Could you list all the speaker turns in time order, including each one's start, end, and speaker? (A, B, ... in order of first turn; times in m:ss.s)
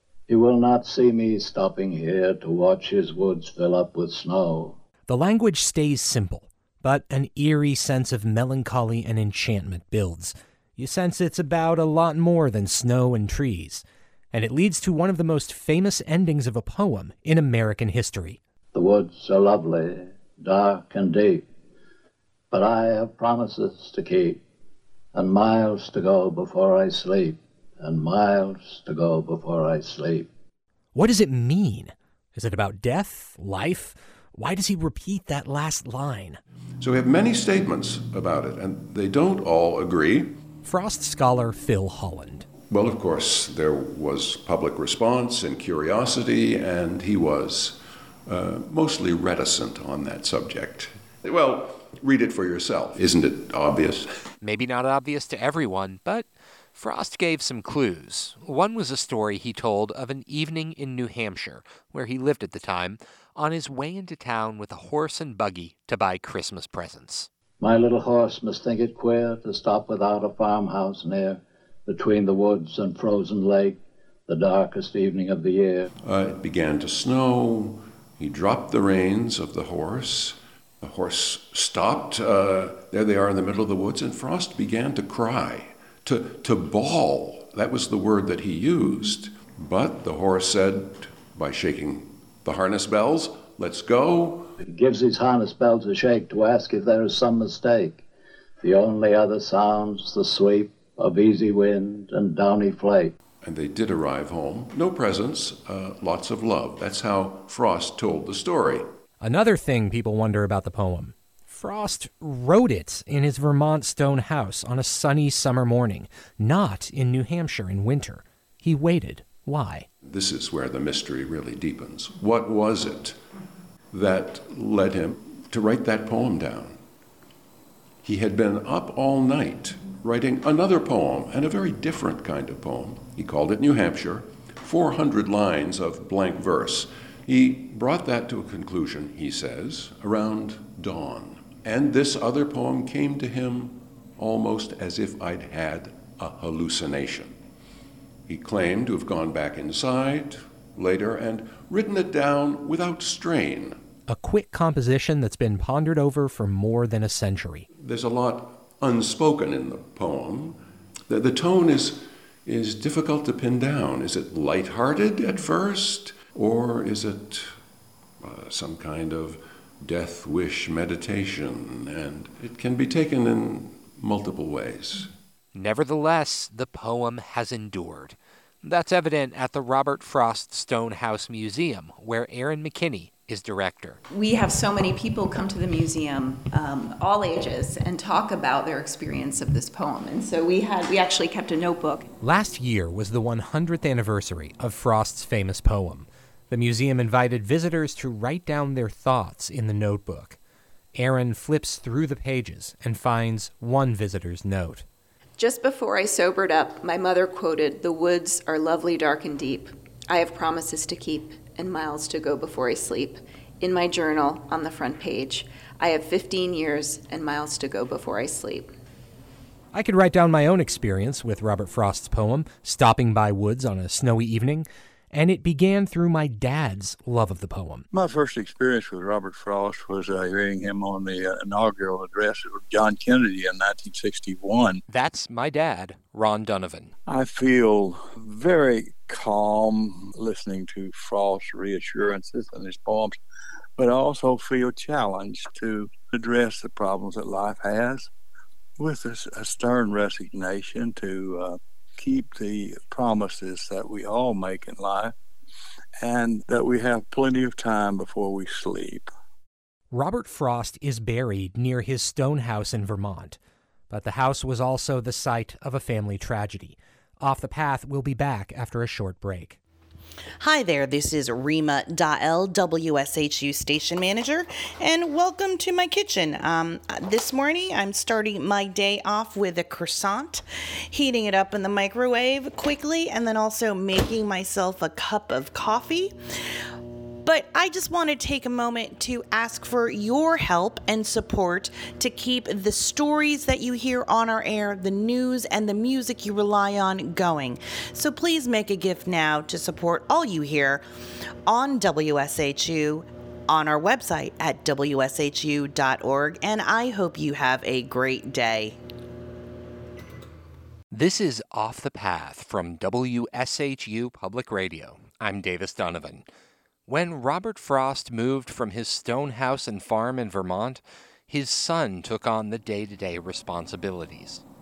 0:00.3-0:04.8 A
0:05.1-0:18.4 B
0:18.7-0:21.4 A
0:22.5-0:24.4 A
0:25.1-0:30.3 A
0:30.9-0:36.4 B
0:36.8-0:40.4 C
0:40.6-0:42.5 B
0:42.7-0:54.1 C
0:54.4-1:07.3 B
1:07.6-1:15.9 A
1:16.0-1:34.5 C
1:34.6-1:38.0 A
1:38.6-1:43.1 A
1:43.4-1:48.8 C
1:49.2-1:59.9 B
2:00.0-2:03.2 C
2:03.9-2:06.8 C
2:08.0-2:27.4 C
2:28.3-2:33.8 C
2:34.1-2:37.7 B
2:37.8-2:47.6 C
2:48.2-2:55.1 C
2:55.5-3:04.0 B
3:04.1-3:12.1 D
3:12.2-3:20.4 B
3:21.0-3:24.8 B
3:25.4-3:38.7 D
3:39.7-3:47.9 B
3:47.9-3:54.8 E
3:54.9-3:56.9 B
3:57.1-4:03.1 E
4:03.8-4:08.1 E
4:08.8-4:15.1 E
4:16.0-4:19.0 E
4:19.9-4:23.4 B
4:23.9-4:29.6 B
4:30.4-4:46.1 F
4:47.2-5:00.8 F
5:01.5-5:08.8 F
5:10.9-5:16.3 B
5:16.9-5:24.4 B